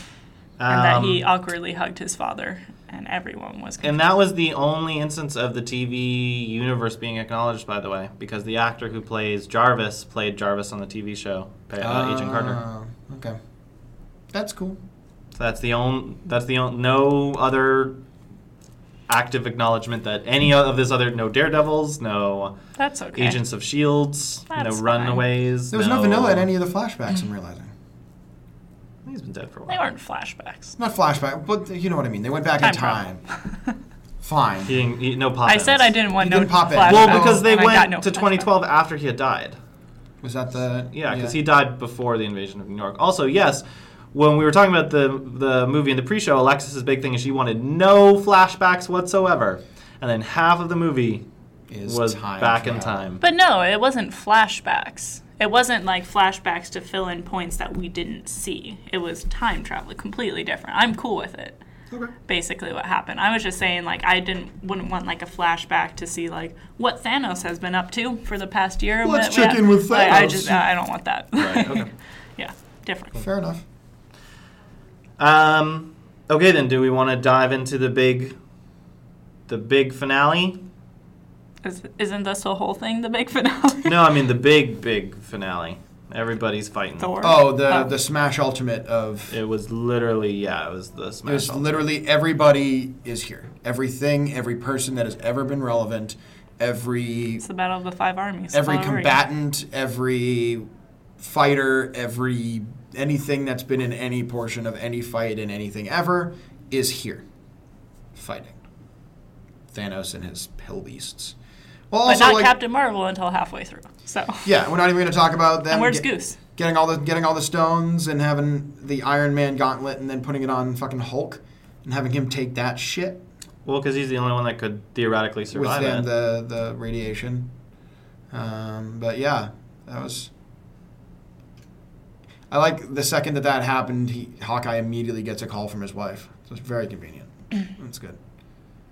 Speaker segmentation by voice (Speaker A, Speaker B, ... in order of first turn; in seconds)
Speaker A: 0.6-1.2, 3.8-12.6, 15.3-18.0, 19.1-22.6, 23.1-26.5, 29.1-29.8, 34.6-35.9, 36.8-39.6, 40.9-51.2, 51.8-53.2, 71.3-71.9, 75.2-78.3, 79.5-80.6, 83.8-87.1, 89.3-91.8, 123.7-126.1
Speaker B: 0.7-3.9, 22.8-23.4, 24.5-25.2, 29.7-30.7, 32.6-33.0, 35.5-38.5, 53.2-61.6, 62.3-73.2, 81.6-84.1, 87.0-87.9, 97.4-99.2, 112.0-114.5, 115.7-116.4
Speaker C: 11.8-13.4, 14.3-14.8, 25.7-27.7, 30.8-33.2, 34.2-34.7, 36.2-37.5, 40.2-41.4, 51.7-53.1, 69.0-70.6, 73.2-73.6, 87.2-89.3, 91.2-97.4, 98.5-100.7, 101.2-107.2, 108.1-108.6, 109.7-111.3, 111.9-112.5, 114.4-123.2, 125.5-127.5, 128.3-130.3, 132.5-138.2